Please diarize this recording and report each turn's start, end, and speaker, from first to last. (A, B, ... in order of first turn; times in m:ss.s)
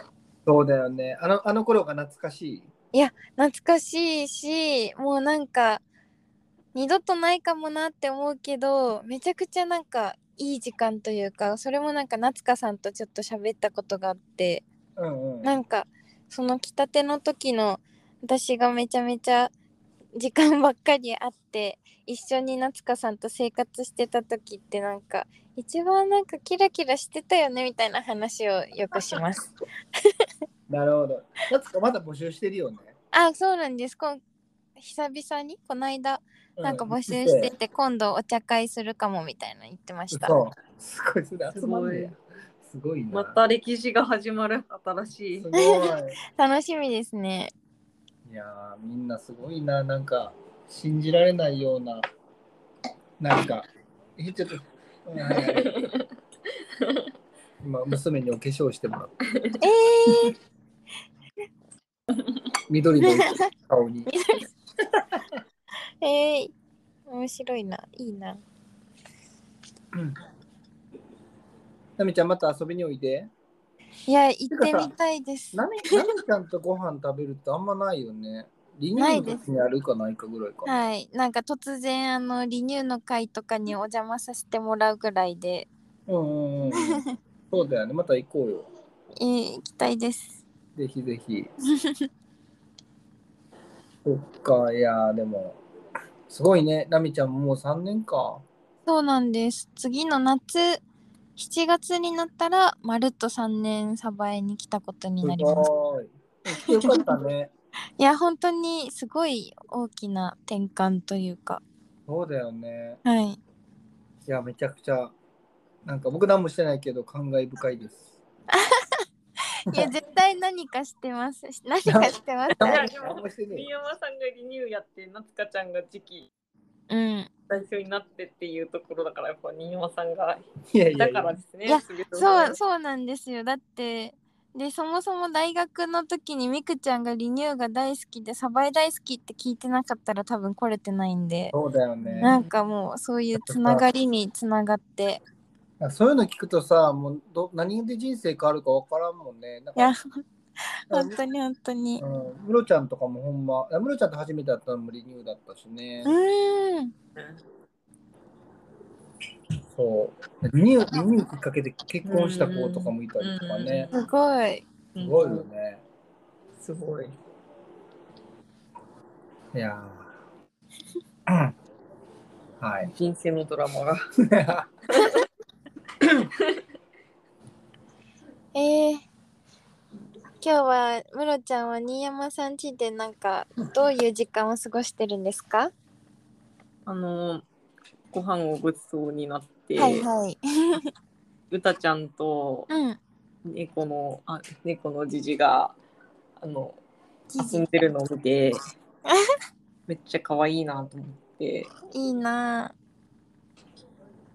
0:00.4-0:02.7 A
0:02.9-0:05.8 B
0:06.7-0:14.6 B
0:15.0-0:15.6 A
0:15.4-0:19.5 B
0:20.1-0:30.3 B
0:30.7-0:32.9 A
0:33.1-0:34.2 B
0:34.8-0:40.4 B
0:36.6-0:37.5 A
0:40.1-0:43.4 A
0:41.5-0:42.1 C
0:43.1-0:45.5 C
0:45.3-0:46.2 A
0:45.5-0:47.5 B
0:48.2-0:52.1 A
0:53.2-0:55.7 A
0:55.2-0:56.0 C
0:56.8-0:57.1 C
0:57.6-0:59.2 A
0:59.3-0:59.6 C
0:59.6-1:00.3 B
1:02.7-1:04.1 A
1:03.0-1:03.4 B
1:04.1-1:04.4 B
1:05.0-1:05.3 A
1:06.0-1:06.5 B
1:07.1-1:08.4 B
1:12.0-1:13.3 A
1:14.1-1:15.6 B
1:14.5-1:14.9 A
1:15.5-1:20.8 A
1:19.0-1:19.4 B
1:20.6-1:25.7 B
1:26.1-1:28.7 A
1:26.7-1:27.0 B
1:29.2-1:30.4 B
1:30.8-1:31.5 A
1:31.8-1:32.1 B
1:34.0-1:35.6 A
1:36.3-1:38.4 A
1:38.8-1:40.8 B
1:41.4-1:45.6 B
1:45.2-1:47.5 A
1:46.6-1:47.0 B
1:48.0-1:51.6 B
1:52.1-1:53.0 A
1:53.0-1:53.4 B
1:54.2-1:55.1 A
1:55.8-1:58.1 A
1:58.5-1:59.0 B
1:59.6-2:02.9 B
2:01.8-2:03.7 A
2:02.6-2:06.3 C
2:06.9-2:07.3 B
2:07.5-2:10.4 C
2:10.7-2:11.4 A
2:11.0-2:12.6 C
2:11.6-2:21.5 B
2:21.5-2:22.4 A
2:22.0-2:22.5 C
2:22.2-2:25.2 B
2:23.3-2:23.8 A
2:25.8-2:29.9 A
2:29.8-2:30.2 B
2:30.9-2:32.0 B
2:30.9-2:31.2 A
2:32.0-2:36.1 A
2:36.0-2:36.9 B
2:39.7-2:43.9 A
2:42.0-2:44.1 C
2:43.9-2:44.6 B
2:44.9-2:45.5 C
2:45.0-2:45.8 A
2:46.6-2:47.2 C
2:49.5-2:50.1 A
2:51.3-2:51.5 A
2:52.6-2:52.9 A
2:52.8-2:54.0 C
2:54.2-2:54.7 A
2:54.9-2:55.2 C
2:56.0-2:56.3 A
2:58.5-2:59.0 B
3:00.4-3:05.7 B
3:06.8-3:07.4 C
3:08.1-3:10.1 C
3:09.8-3:10.9 B
3:11.5-3:12.7 C
3:12.7-3:13.0 B
3:13.4-3:15.8 C
3:16.4-3:16.8 C
3:17.3-3:17.6 B
3:17.4-3:18.6 C
3:19.9-3:21.7 C
3:21.9-3:22.7 B